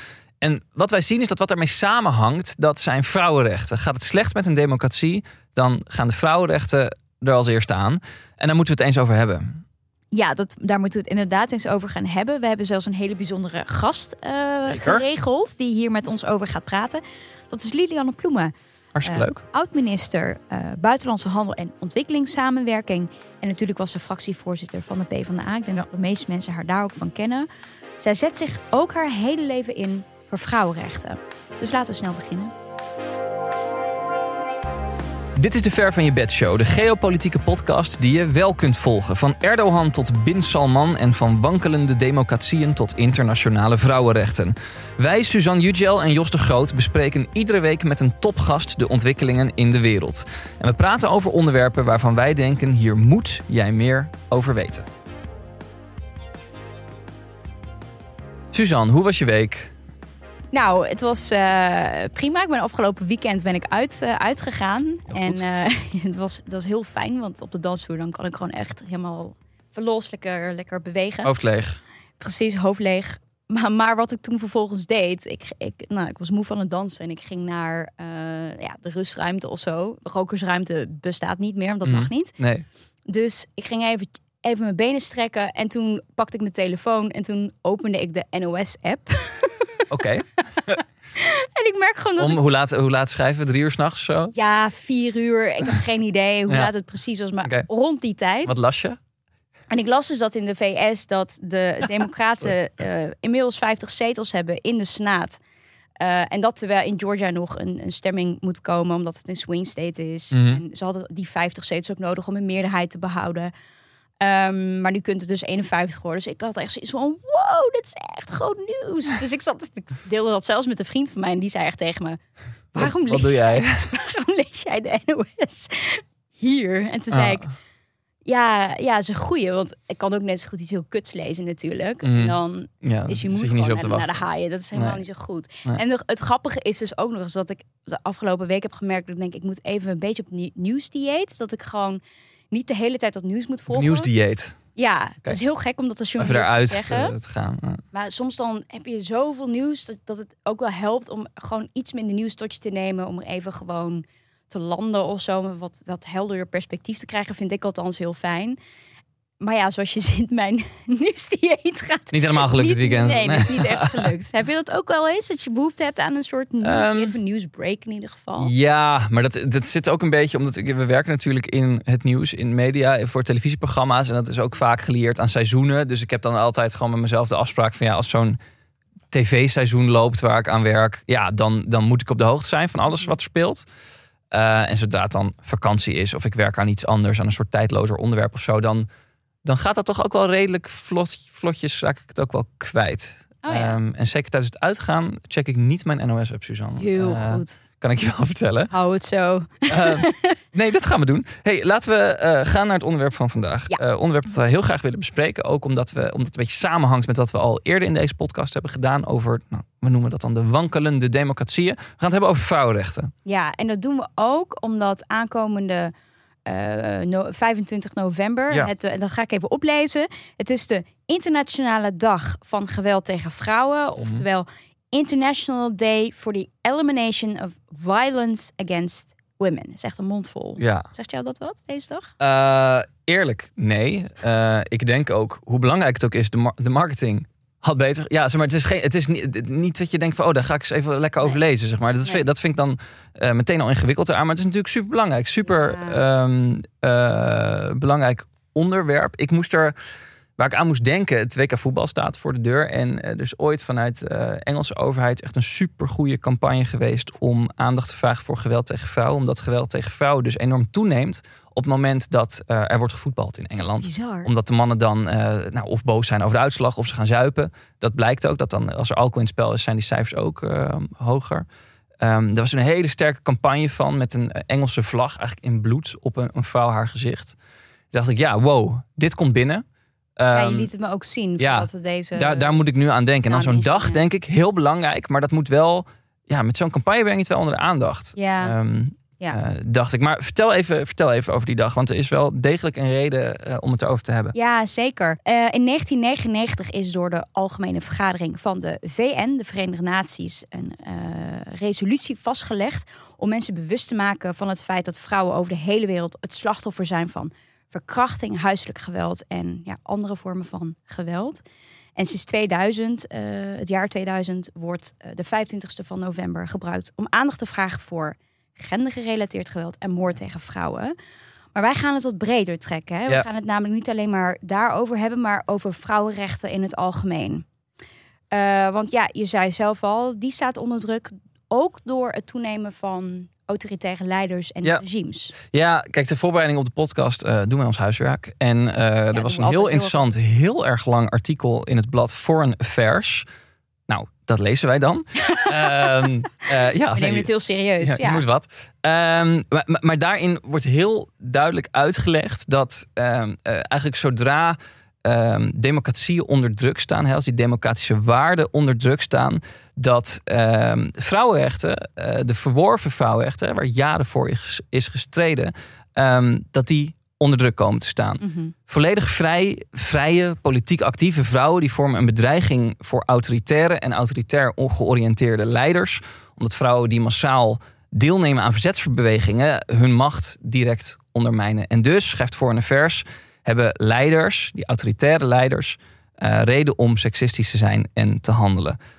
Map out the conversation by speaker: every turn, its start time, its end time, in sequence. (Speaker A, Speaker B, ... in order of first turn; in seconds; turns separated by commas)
Speaker A: 0.4-9.6, Speaker B: 10.1-18.5, Speaker A: 14.7-15.1, Speaker A: 18.9-19.4, Speaker B: 19.1-27.5, Speaker B: 28.0-32.5, Speaker A: 35.4-54.9, Speaker A: 58.5-59.7, Speaker B: 60.5-71.3, Speaker A: 65.1-65.4, Speaker A: 71.2-71.8, Speaker B: 72.2-82.4, Speaker A: 81.8-82.7, Speaker B: 83.1-89.9, Speaker A: 89.9-90.8, Speaker B: 91.2-92.4, Speaker A: 92.2-94.3, Speaker B: 94.3-98.5, Speaker A: 98.5-99.0, Speaker B: 99.7-105.4, Speaker B: 106.0-113.5, Speaker A: 110.3-110.6, Speaker B: 114.2-122.2, Speaker B: 122.7-127.5, Speaker A: 122.8-123.9, Speaker A: 127.1-127.4, Speaker B: 128.2-142.0, Speaker A: 132.0-134.2, Speaker A: 134.8-135.0, Speaker B: 142.5-144.1, Speaker A: 143.7-144.6, Speaker B: 144.8-147.1, Speaker A: 146.2-147.8, Speaker B: 147.9-158.6, Speaker B: 159.4-168.5, Speaker A: 162.1-164.1, Speaker A: 166.6-167.2, Speaker A: 168.4-178.4, Speaker A: 179.1-183.7, Speaker A: 184.3-188.9, Speaker A: 189.4-198.7, Speaker B: 193.5-193.8, Speaker B: 196.8-197.6, Speaker B: 198.7-200.4, Speaker A: 199.7-213.1, Speaker B: 213.2-215.9, Speaker B: 216.4-232.1, Speaker A: 224.0-224.2, Speaker A: 230.6-230.9, Speaker A: 232.2-249.8, Speaker B: 245.5-246.0, Speaker A: 250.4-271.5, Speaker B: 263.5-264.3, Speaker A: 272.0-277.4, Speaker A: 277.9-279.6, Speaker A: 280.2-280.7, Speaker B: 280.3-282.6, Speaker A: 281.4-294.3, Speaker B: 283.3-284.0, Speaker B: 288.2-288.6, Speaker B: 294.3-311.4, Speaker B: 312.0-320.9, Speaker B: 321.6-327.4, Speaker B: 328.3-335.4, Speaker A: 335.4-343.3, Speaker B: 339.1-340.1, Speaker A: 343.9-347.3, Speaker B: 345.2-346.1, Speaker B: 346.9-348.2, Speaker A: 347.8-388.8, Speaker B: 368.2-368.5